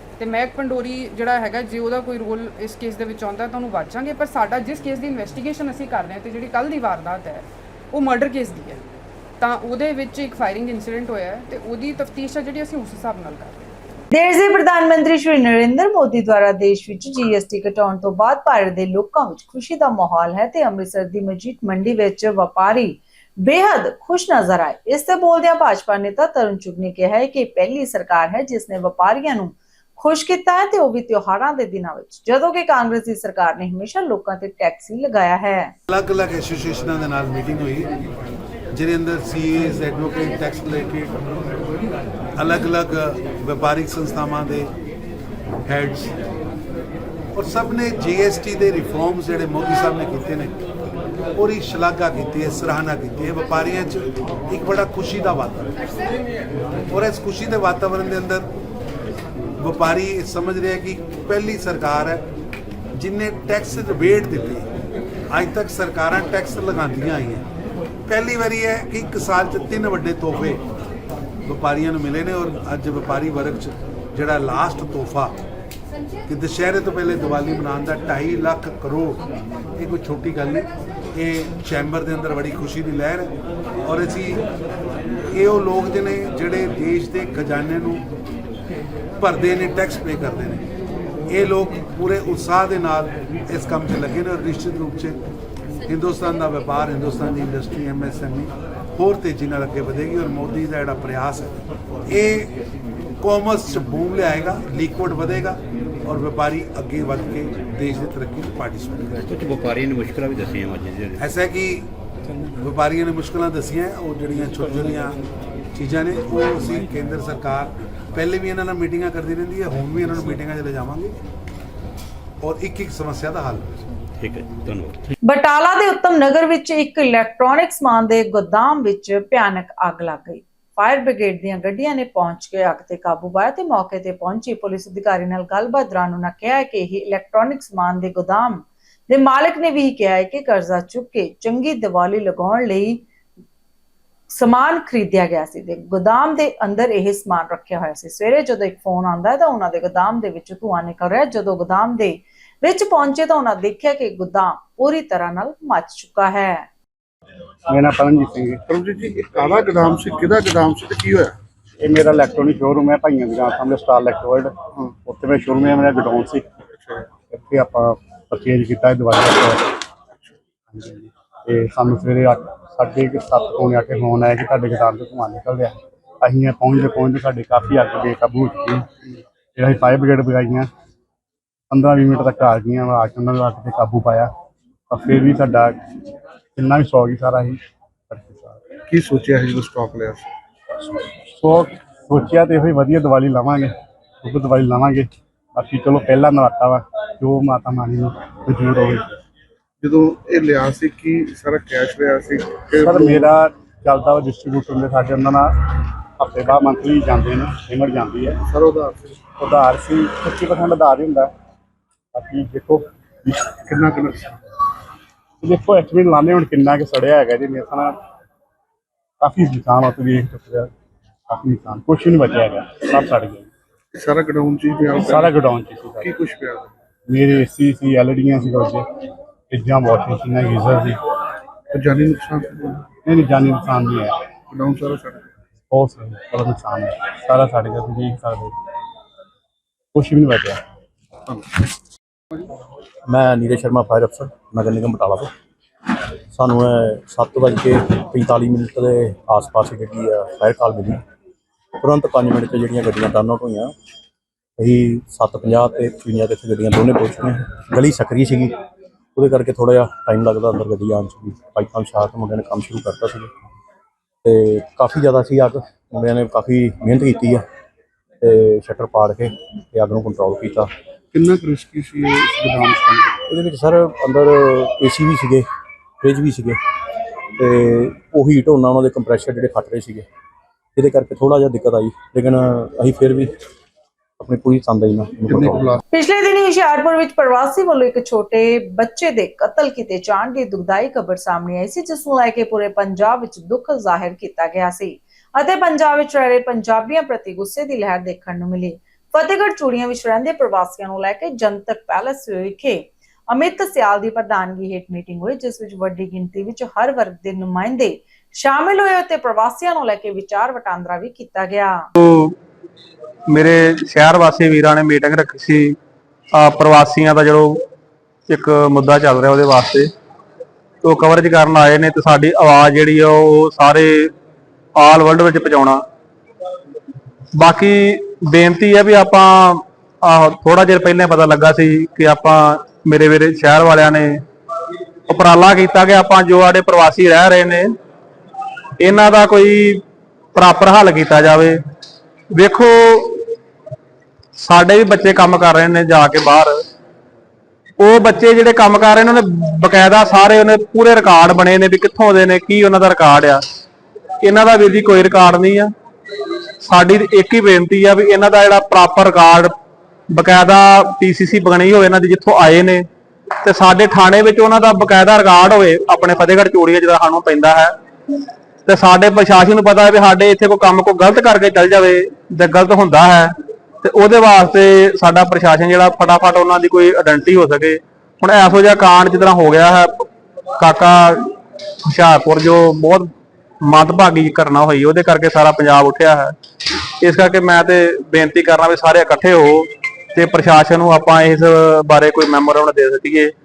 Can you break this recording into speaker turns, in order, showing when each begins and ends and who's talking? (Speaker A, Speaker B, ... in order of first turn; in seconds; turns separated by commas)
Speaker A: 0.2-8.8, Speaker A: 9.4-13.7, Speaker B: 14.1-35.7, Speaker C: 35.9-38.0, Speaker C: 38.7-41.2, Speaker C: 42.4-44.7, Speaker C: 45.6-46.1, Speaker C: 47.3-50.6, Speaker C: 51.3-55.8, Speaker C: 56.9-58.5, Speaker C: 59.6-62.2, Speaker C: 62.9-64.7, Speaker C: 65.3-67.4, Speaker C: 68.1-70.6, Speaker C: 71.4-75.3, Speaker C: 76.2-79.2, Speaker C: 79.7-84.4, Speaker C: 85.3-88.0, Speaker C: 89.2-90.6, Speaker C: 91.3-95.2, Speaker C: 95.8-101.6, Speaker C: 102.1-102.5, Speaker C: 103.2-109.2, Speaker D: 109.2-111.2, Speaker C: 111.2-111.9, Speaker C: 112.6-115.2, Speaker C: 115.7-121.2, Speaker C: 122.4-123.8, Speaker D: 124.2-125.1, Speaker B: 125.2-143.0, Speaker B: 144.3-156.7, Speaker E: 157.7-158.6, Speaker F: 158.7-161.3, Speaker E: 161.8-166.4, Speaker E: 167.3-169.7, Speaker E: 170.7-178.9, Speaker E: 179.5-180.7, Speaker E: 181.7-184.3, Speaker E: 184.9-185.9, Speaker E: 186.6-188.6, Speaker F: 188.9-190.2, Speaker E: 191.2-199.1, Speaker F: 199.8-203.3, Speaker E: 202.8-208.4, Speaker F: 208.5-209.2, Speaker E: 209.4-211.3, Speaker E: 212.1-213.5, Speaker F: 213.7-214.3, Speaker E: 215.4-218.0, Speaker E: 219.2-220.7, Speaker E: 221.3-223.5, Speaker F: 223.9-225.3, Speaker E: 225.0-226.1, Speaker F: 226.0-226.7, Speaker E: 227.1-228.8, Speaker E: 229.5-231.0, Speaker F: 231.7-232.9, Speaker E: 233.0-234.1, Speaker F: 234.5-235.3, Speaker E: 235.7-238.6, Speaker E: 239.9-240.6, Speaker G: 243.1-245.3, Speaker G: 246.3-251.0, Speaker G: 251.8-253.7, Speaker G: 254.6-258.6, Speaker G: 259.1-263.3, Speaker G: 264.2-267.4, Speaker G: 268.2-270.7, Speaker F: 271.1-273.2, Speaker G: 273.3-275.5, Speaker G: 276.0-276.6, Speaker G: 277.4-280.1, Speaker G: 280.8-283.3, Speaker G: 284.2-285.8, Speaker F: 285.3-285.8, Speaker B: 285.9-311.9, Speaker H: 311.9-312.3, Speaker H: 313.3-315.8, Speaker H: 316.3-317.6, Speaker H: 318.3-319.9, Speaker H: 320.8-324.1, Speaker H: 324.8-325.8, Speaker H: 327.4-334.2, Speaker H: 335.1-337.7, Speaker H: 338.8-339.8, Speaker H: 340.3-341.6, Speaker H: 342.3-343.2, Speaker H: 344.4-346.6, Speaker H: 347.8-353.4, Speaker H: 354.2-355.7, Speaker H: 356.6-359.5, Speaker H: 360.1-362.9, Speaker H: 363.4-367.7, Speaker H: 368.6-380.1, Speaker H: 380.6-381.3, Speaker H: 381.9-383.1, Speaker H: 383.6-386.3, Speaker H: 387.0-393.3